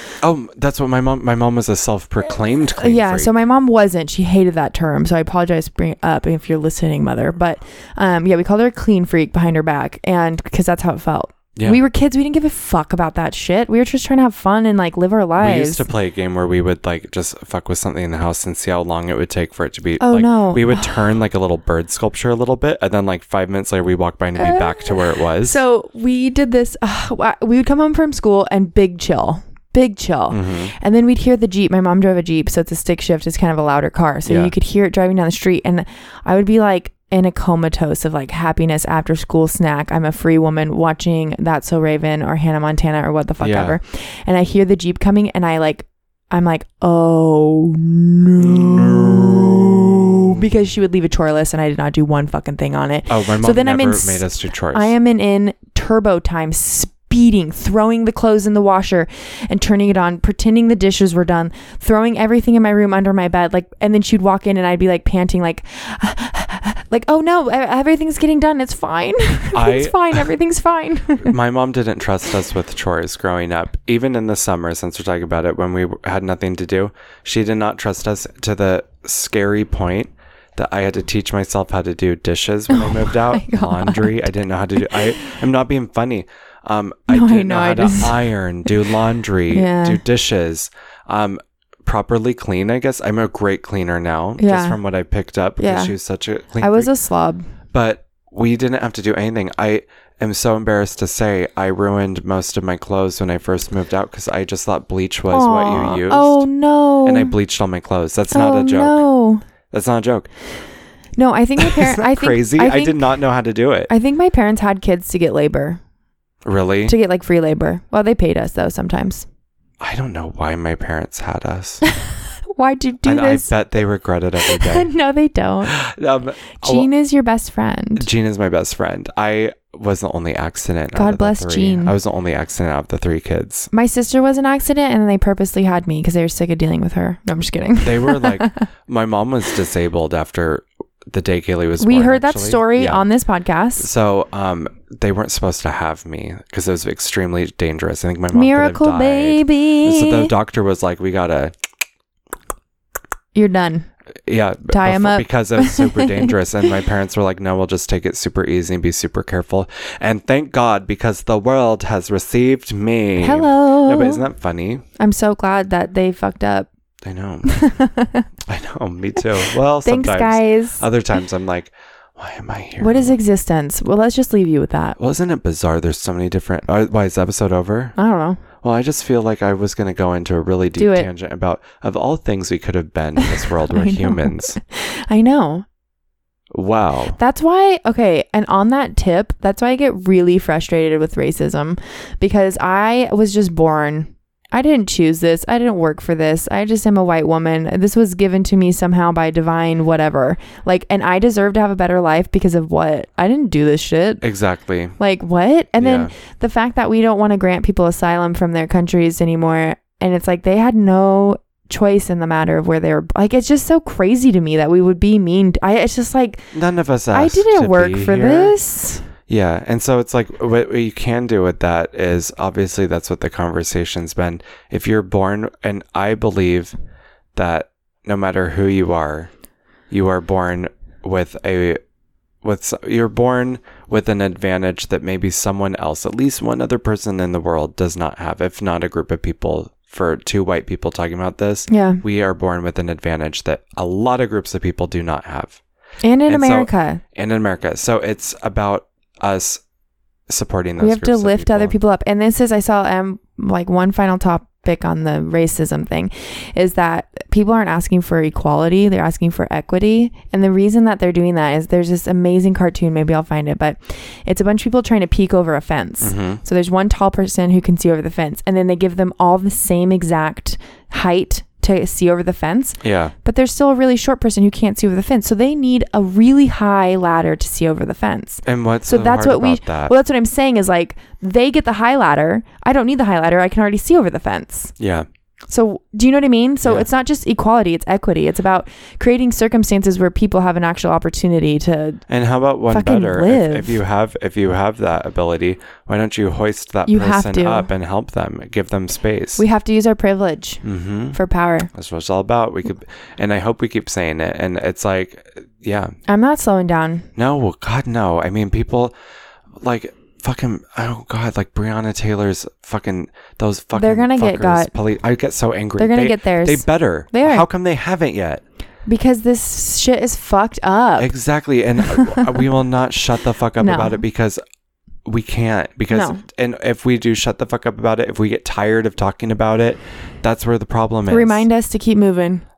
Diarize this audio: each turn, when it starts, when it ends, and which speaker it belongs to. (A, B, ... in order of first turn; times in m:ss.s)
0:00.2-0:03.3 A
0:02.8-0:15.8 B
0:11.5-0:11.8 A
0:15.4-0:25.6 A
0:20.0-0:21.1 B
0:24.4-1:11.4 B
0:30.3-0:30.7 A
0:34.2-0:34.5 A
0:43.4-0:43.8 A
0:48.4-0:50.4 A
0:53.1-0:54.9 A
1:09.5-1:10.2 A
1:11.2-1:36.9 A
1:22.7-1:25.2 B
1:27.1-1:28.7 B
1:29.5-1:30.0 B
1:34.4-1:34.8 B
1:35.6-1:35.9 B
1:36.6-1:37.5 B
1:37.7-1:46.4 A
1:45.3-1:47.3 B
1:47.0-1:49.0 A
1:48.3-1:49.4 B
1:49.7-1:50.3 A
1:51.2-1:53.0 B
1:51.6-1:53.9 A
1:53.9-1:55.8 B
1:56.4-1:56.9 A
1:56.9-1:59.2 B
1:59.8-2:01.8 A
2:01.9-2:03.5 B
2:03.0-2:04.9 A
2:04.4-2:05.8 B
2:05.6-2:06.9 A
2:06.6-2:08.1 B
2:08.0-2:13.7 A
2:10.9-2:11.9 B
2:13.7-2:18.6 B
2:17.8-2:23.0 A
2:21.8-2:23.9 B
2:23.8-2:31.5 A
2:28.3-2:30.3 B
2:33.3-2:33.9 B
2:34.2-2:44.8 A
2:34.7-2:36.3 B
2:43.2-2:44.2 B
2:45.0-2:46.7 B
2:47.0-2:47.6 A
2:47.5-2:48.3 B
2:48.5-2:53.2 A
2:49.8-2:50.8 B
2:52.8-2:55.0 B
2:55.0-2:58.0 A
2:58.0-2:58.4 B
2:58.6-3:04.6 A
3:00.8-3:01.1 B
3:03.2-3:05.6 B
3:06.5-3:07.2 A
3:07.2-3:24.2 B
3:24.2-3:25.0 A
3:25.0-3:36.5 B
3:25.8-3:26.1 A
3:36.5-3:38.5 A
3:37.1-3:39.1 B
3:39.3-3:46.7 A
3:47.3-3:49.3 A
3:49.9-3:51.8 A
3:52.4-4:05.6 A
4:01.7-4:02.0 B
4:06.0-4:07.0 B
4:06.3-4:09.6 A
4:10.3-4:11.7 A
4:10.8-4:44.7 B
4:26.0-4:26.4 A
4:32.8-4:33.1 A
4:38.4-4:39.9 A
4:44.8-4:45.0 A
4:45.5-4:52.0 B
4:46.6-4:46.9 A
4:52.1-4:59.4 A
4:52.7-4:53.8 B
4:56.9-4:57.7 B
4:59.4-5:00.6 B
5:00.6-5:01.2 A
5:01.1-5:01.7 B
5:01.7-5:06.0 A
5:06.1-5:07.1 B
5:07.2-5:08.9 A
5:09.6-5:18.4 A
5:13.7-5:14.7 B
5:15.8-5:17.4 B
5:18.8-5:21.1 B
5:21.0-5:24.4 A
5:21.8-5:22.5 B
5:23.6-5:24.0 B
5:25.0-5:31.4 A
5:25.9-5:26.2 B
5:31.1-5:32.4 B